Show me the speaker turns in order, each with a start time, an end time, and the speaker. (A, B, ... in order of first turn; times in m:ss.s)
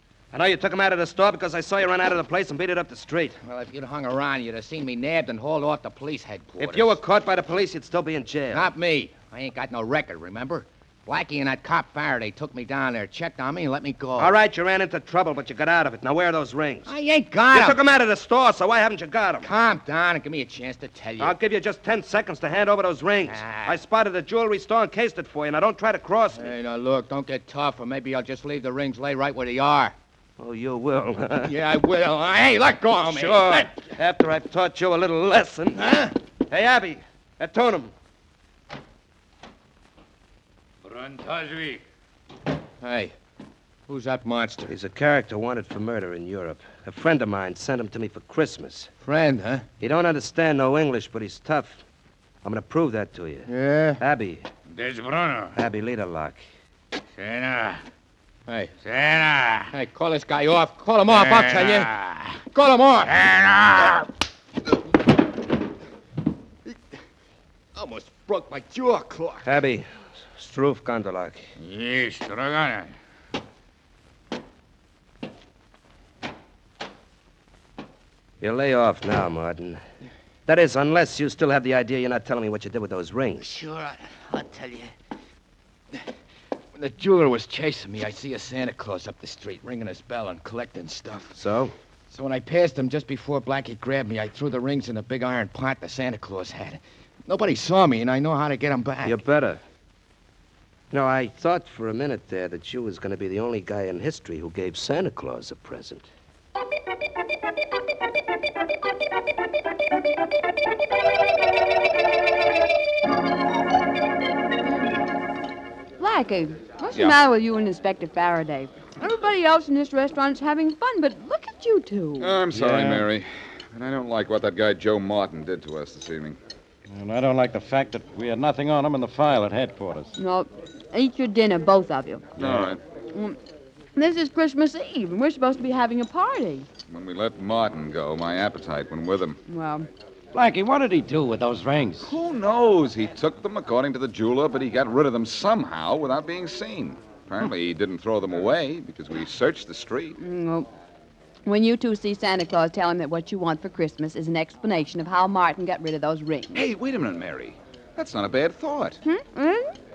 0:00.3-0:03.4 A
0:03.4-0:07.0 B
0:06.6-0:08.7 A
0:08.5-0:14.3 B
0:14.2-0:16.9 A
0:16.9-0:17.8 B
0:17.5-0:19.5 A
0:19.4-0:21.4 B
0:21.2-0:26.5 A
0:23.3-0:23.8 B
0:26.4-0:30.0 B
0:30.4-0:31.6 A
0:31.4-0:33.7 B
0:33.0-0:37.9 A
0:35.8-0:36.1 B
0:41.0-0:41.8 C
0:42.8-0:43.1 B
0:43.9-0:44.7 B
0:44.7-0:48.9 A
0:49.0-0:49.7 B
0:49.8-0:51.8 A
0:52.4-0:54.5 A
0:53.5-0:54.0 B
0:54.8-0:55.5 C
0:55.5-0:56.4 A
0:57.2-0:57.7 C
0:58.5-1:03.2 B
1:01.1-1:01.9 C
1:03.2-1:03.7 C
1:07.8-1:09.4 B
1:09.4-1:11.5 A
1:11.6-1:12.8 C
1:18.4-1:19.8 A
1:20.5-1:23.6 A
1:23.4-1:24.9 B
1:26.8-1:31.4 B
1:31.4-1:31.7 A
1:32.1-1:39.2 B
1:39.0-1:39.6 A
1:40.9-1:46.1 A
1:56.0-2:02.4 D
2:02.2-2:06.4 E
2:02.5-2:03.0 F
2:06.9-2:10.2 F
2:10.2-2:12.3 D
2:12.4-2:12.8 F
2:12.4-2:12.8 E
2:13.1-2:13.4 D
2:14.0-2:16.7 D
2:16.9-2:19.4 E
2:19.5-2:19.9 D
2:20.3-2:22.1 F
2:22.0-2:30.2 E
2:30.2-2:30.7 D
2:31.4-2:36.7 D
2:36.5-2:39.0 E
2:39.0-2:39.8 D